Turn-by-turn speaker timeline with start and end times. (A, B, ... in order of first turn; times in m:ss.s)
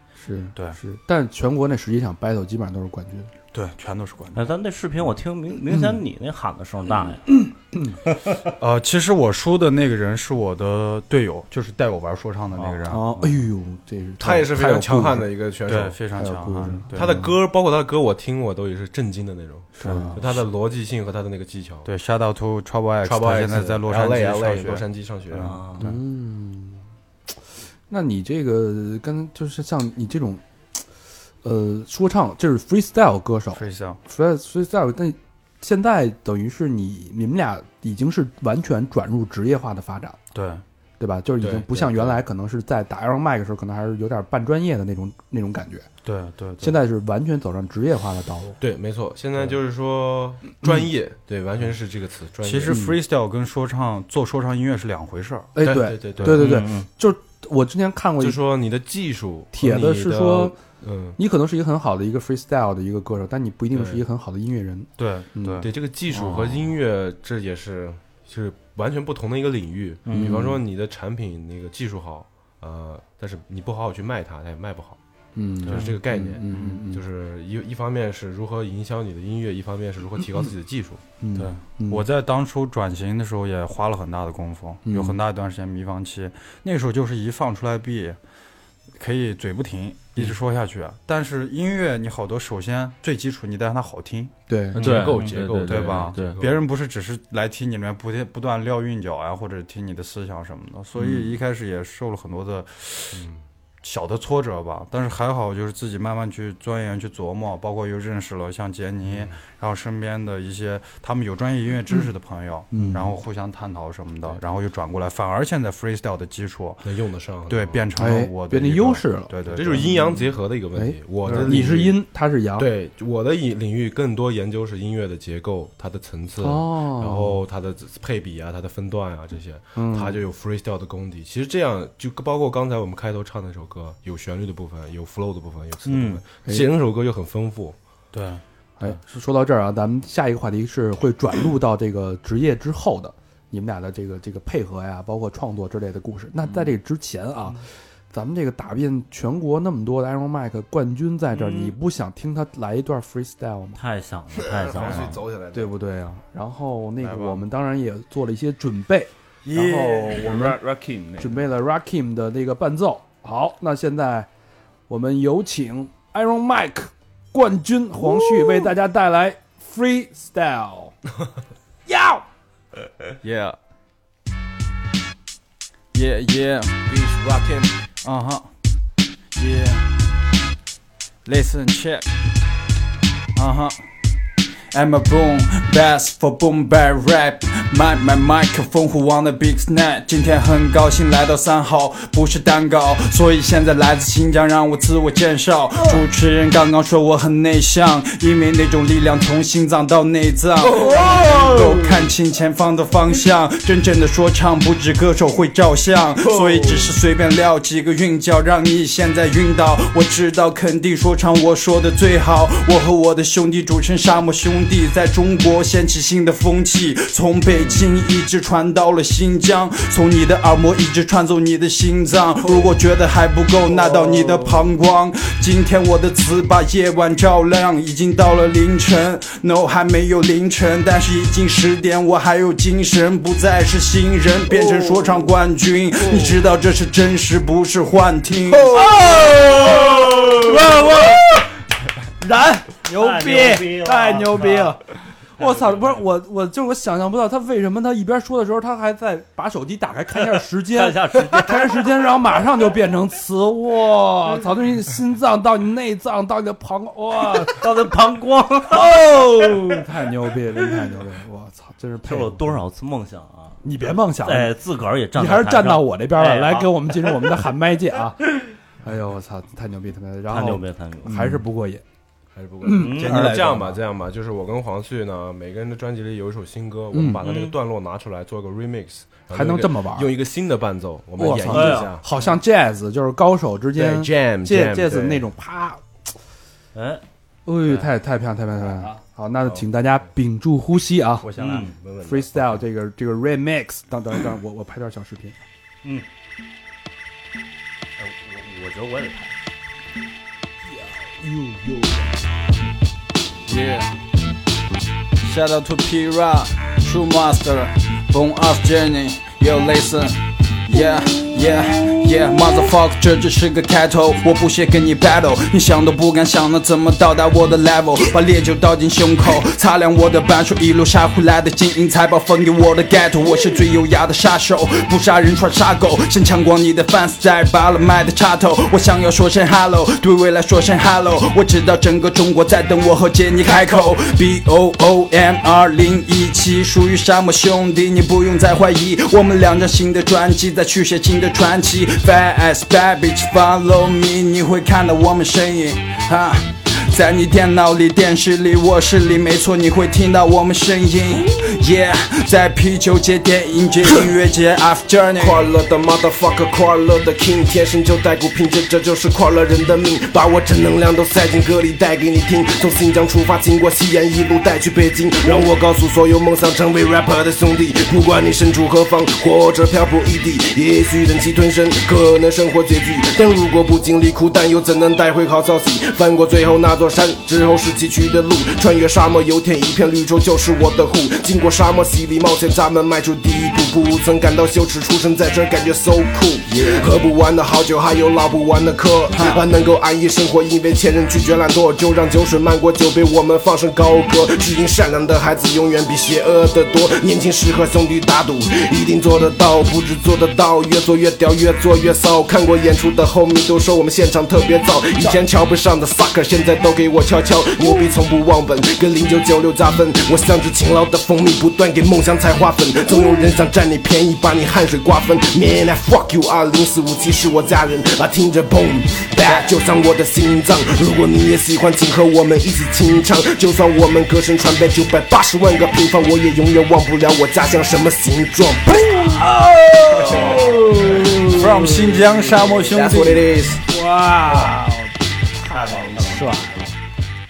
0:00.2-0:03.3 A
0:03.5-0:04.5 B
0:04.3-0:07.3 C
0:05.7-0:06.0 A
0:07.4-0:08.0 A
0:08.6-0:13.0 B
0:12.5-0:13.4 C
0:12.9-0:15.3 A
0:14.2-0:16.0 D
0:15.7-0:17.2 B
0:16.2-0:17.3 A
0:16.9-0:21.9 D
0:19.8-0:20.2 A
0:19.8-0:20.3 B
0:21.8-0:26.0 B
0:23.0-0:25.6 D
0:25.4-0:25.9 C
0:25.8-0:26.8 A
0:27.9-0:30.4 A
0:31.4-0:40.2 A
0:33.5-0:34.0 B
0:40.3-0:40.6 B
0:41.0-0:45.9 A
0:41.4-0:42.2 D
0:46.0-0:46.8 B
0:46.6-0:48.6 A
0:48.6-0:52.8 D
0:52.4-0:55.5 B
0:52.7-0:53.0 A
0:55.5-0:58.4 A
0:55.6-0:56.5 D
0:56.2-0:56.9 C
0:58.2-1:01.2 D
0:59.5-1:00.6 A
1:01.2-1:05.7 A
1:03.7-1:04.0 D
1:05.0-1:05.7 B
1:05.6-1:15.0 D
1:10.0-1:10.5 C
1:10.1-1:10.6 A
1:15.3-1:17.0 A
1:15.6-1:16.8 B
1:15.7-1:21.0 D
1:21.2-1:22.0 A
1:21.3-1:28.2 B
1:24.8-1:25.2 A
1:29.0-1:34.3 B
1:34.5-1:35.1 A
1:34.7-1:36.4 E
1:34.8-1:36.6 D
1:35.6-1:43.2 B
1:43.1-1:43.4 D
1:43.8-1:56.9 B
1:49.0-1:49.4 D
1:52.7-1:53.2 A
1:56.8-1:57.8 D
1:57.5-1:59.9 B
1:58.0-2:02.7 A
1:59.5-2:02.0 D
2:01.3-2:01.7 B
2:02.6-2:17.8 D
2:06.4-2:07.4 A
2:09.8-2:10.2 A
2:15.8-2:16.2 C
2:18.1-2:18.9 B
2:18.8-2:33.8 A
2:33.7-2:35.2 C
2:34.3-2:35.7 D
2:34.8-2:35.1 B
2:35.5-2:40.6 A
2:37.0-2:37.4 B
2:39.6-2:41.4 E
2:41.2-2:44.3 A
2:44.9-2:51.0 A
2:51.8-2:52.2 A
2:53.2-2:53.5 F
2:55.9-2:56.8 F
2:56.9-2:57.7 D
2:58.0-2:58.4 F
2:59.3-2:59.8 F
3:01.2-3:02.0 F
3:03.4-3:03.8 F
3:04.7-3:58.8 F
3:20.8-3:21.8 G
3:26.3-3:26.8 G
3:44.1-3:44.4 G
3:54.5-3:55.2 G
3:58.6-4:01.2 A
4:00.5-4:01.2 C
4:02.2-4:17.7 A
4:02.9-4:04.8 C
4:10.7-4:11.9 C
4:17.4-4:18.9 C
4:18.7-4:22.6 A
4:22.0-4:23.6 C
4:23.6-4:24.6 A
4:24.2-4:27.1 C
4:25.1-4:31.8 A
4:30.3-4:31.3 C
4:32.3-4:42.0 D
4:32.6-4:33.8 A
4:32.7-4:33.8 C
4:36.9-4:37.2 A
4:37.2-4:37.6 C
4:39.3-4:40.1 A
4:41.2-4:45.8 A
4:41.5-4:41.9 C
4:43.7-4:45.2 D
4:46.7-4:47.0 C
4:47.4-4:51.3 A
4:49.4-4:50.0 D
4:51.2-4:51.7 B
4:51.3-4:51.8 C
4:51.7-4:52.6 D
4:52.0-4:55.4 A
4:58.0-4:59.4 C
5:00.6-5:02.2 A
5:03.5-5:03.9 F
5:05.2-5:55.4 F
5:33.4-5:34.0 G
5:55.2-7:11.8 G
6:26.5-6:27.0 F
6:29.1-6:29.4 F
6:59.2-6:59.5 F
7:09.1-7:11.1 A
7:11.4-7:13.2 F
7:12.5-7:13.6 G
7:13.7-7:16.7 A
7:15.8-7:16.2 C